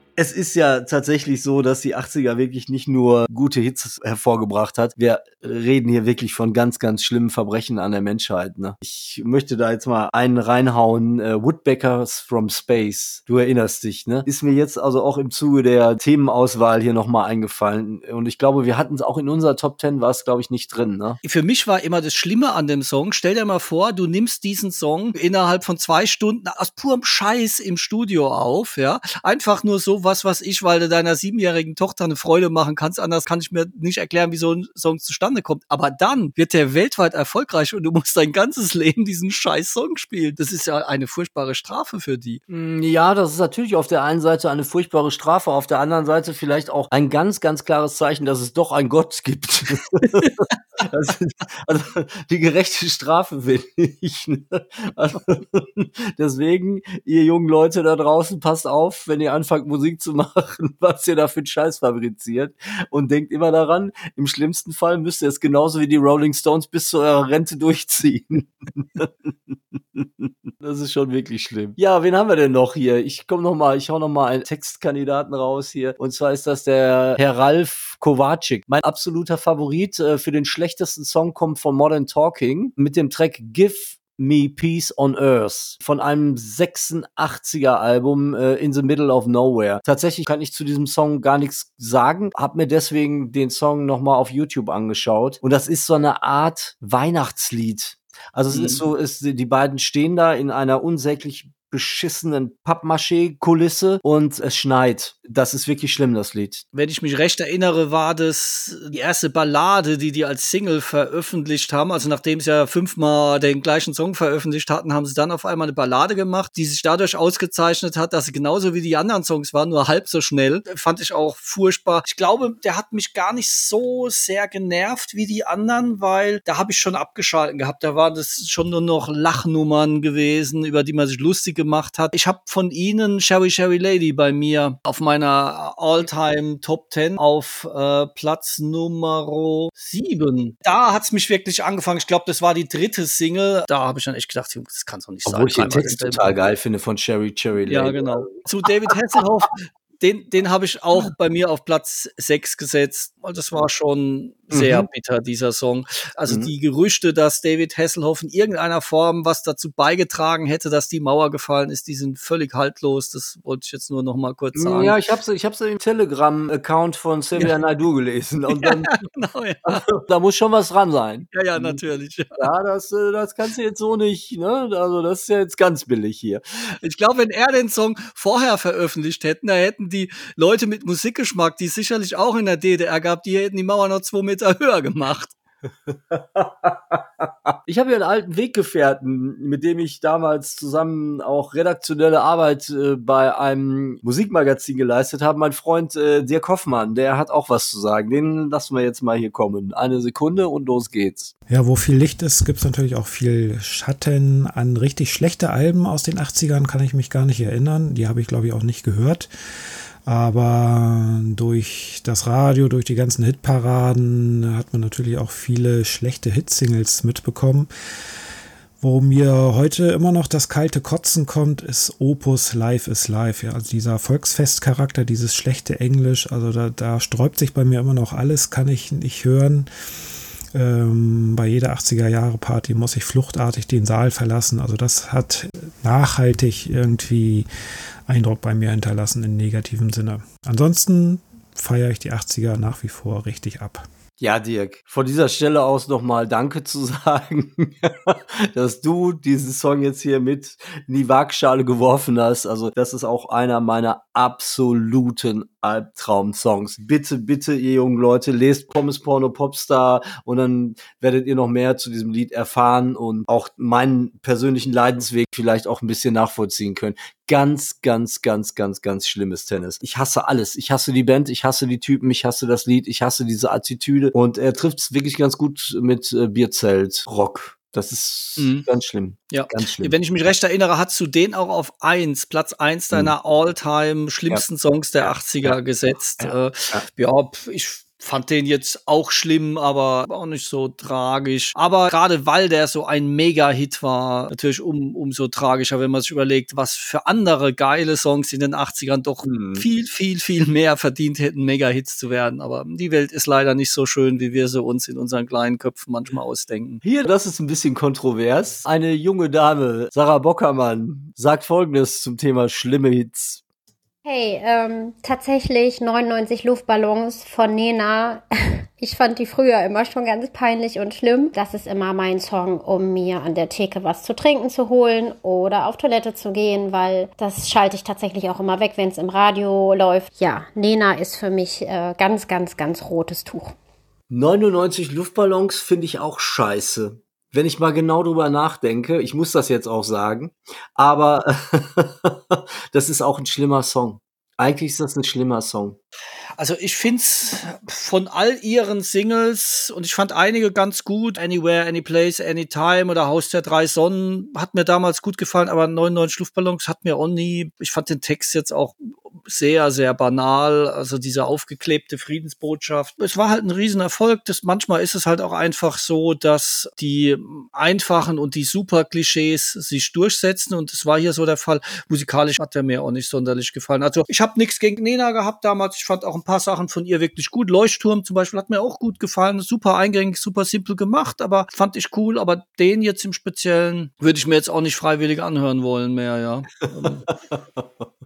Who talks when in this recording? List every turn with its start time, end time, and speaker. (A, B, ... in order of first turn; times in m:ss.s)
0:00.2-0:21.2 A
0:21.2-0:42.4 B
0:42.5-1:46.6 A
1:38.5-1:38.8 B
1:46.7-2:26.3 B
2:25.2-2:28.4 A
2:27.7-2:45.0 B
2:34.5-2:34.8 A
2:44.5-2:48.9 A
2:48.5-2:49.8 B
2:49.7-2:51.8 A
2:51.3-2:52.4 B
2:52.4-2:56.4 A
2:56.8-3:05.3 B
3:05.9-3:21.3 A
3:21.5-3:29.3 C
3:30.0-3:37.7 C
3:38.8-3:49.7 C
3:50.5-3:57.5 C
3:58.1-4:03.8 C
4:04.2-4:39.9 A
4:38.4-4:38.6 B
4:39.3-5:06.8 B
4:45.0-4:45.6 A
4:46.2-4:46.8 A
4:59.2-4:59.6 A
5:06.8-5:13.4 A
5:14.0-5:18.2 D
5:18.8-5:33.6 D
5:34.1-5:45.8 A
5:46.4-6:27.0 B
6:26.6-6:27.8 A